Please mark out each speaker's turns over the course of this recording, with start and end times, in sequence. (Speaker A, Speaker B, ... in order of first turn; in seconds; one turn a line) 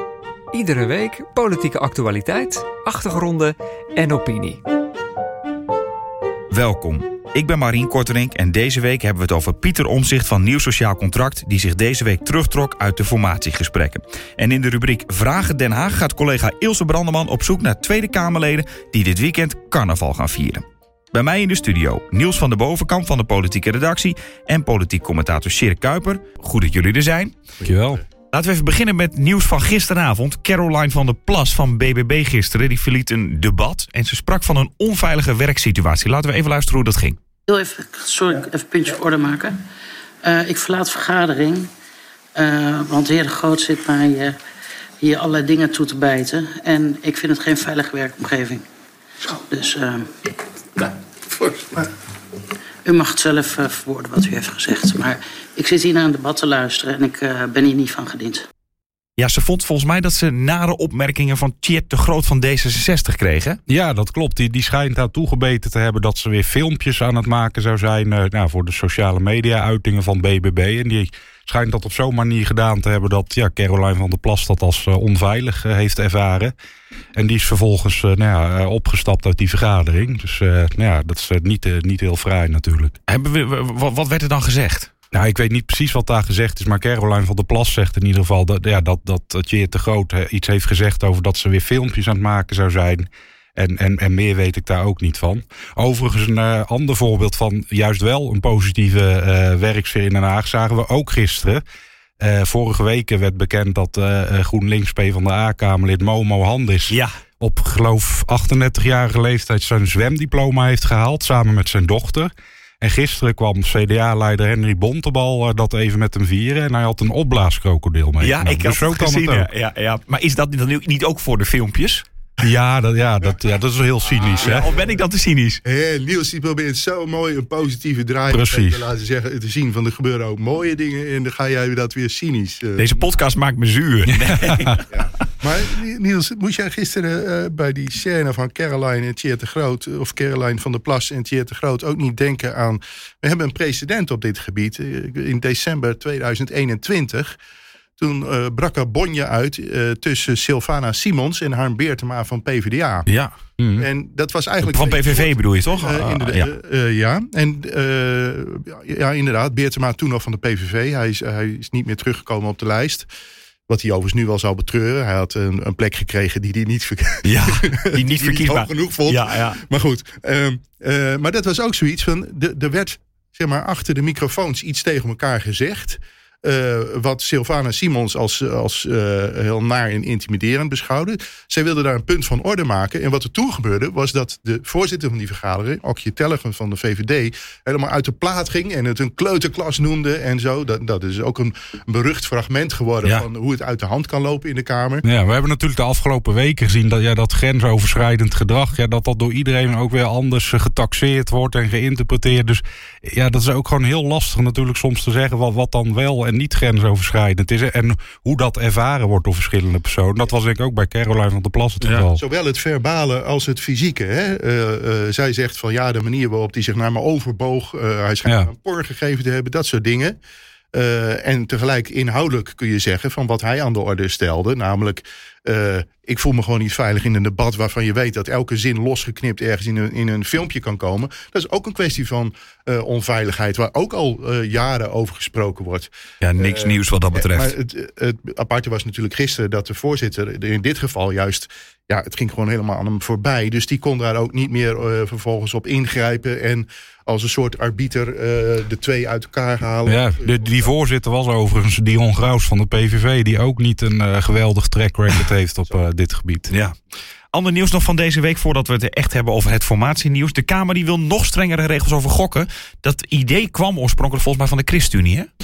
Speaker A: 0.5-4.6
Speaker B: 6.5-27.4
Speaker C: 27.6-28.0
Speaker D: 27.6-28.0
Speaker B: 28.3-37.2
Speaker E: 37.5-39.5
Speaker E: 40.2-41.7
Speaker E: 42.3-44.4
Speaker E: 45.0-48.6
Speaker E: 49.2-50.1
Speaker E: 52.8-58.4
Speaker B: 59.2-63.6
Speaker D: 63.7-76.5
Speaker D: 77.1-83.0
Speaker B: 83.1-84.9
Speaker D: 85.1-101.6
Speaker D: 102.2-119.5
Speaker B: 118.2-122.0
Speaker D: 122.4-124.7
Speaker C: 124.1-124.9
Speaker B: 124.4-125.6
Speaker C: 125.6-133.0
Speaker D: 128.3-128.9
Speaker B: 132.8-134.9
Speaker D: 134.1-134.8
Speaker C: 134.9-147.4
Speaker C: 148.0-153.1
Speaker B: 153.1-153.3
Speaker D: 153.6-153.9
Speaker C: 153.8-163.1
Speaker B: 154.6-156.5
Speaker C: 163.7-195.1
Speaker B: 167.2-169.6
Speaker D: 195.0-212.2
Speaker B: 211.8-212.1
Speaker C: 212.2-220.2
Speaker C: 220.7-250.7
Speaker B: 236.2-237.5
Speaker D: 249.9-256.5
Speaker B: 256.5-256.8
Speaker B: 257.3-265.3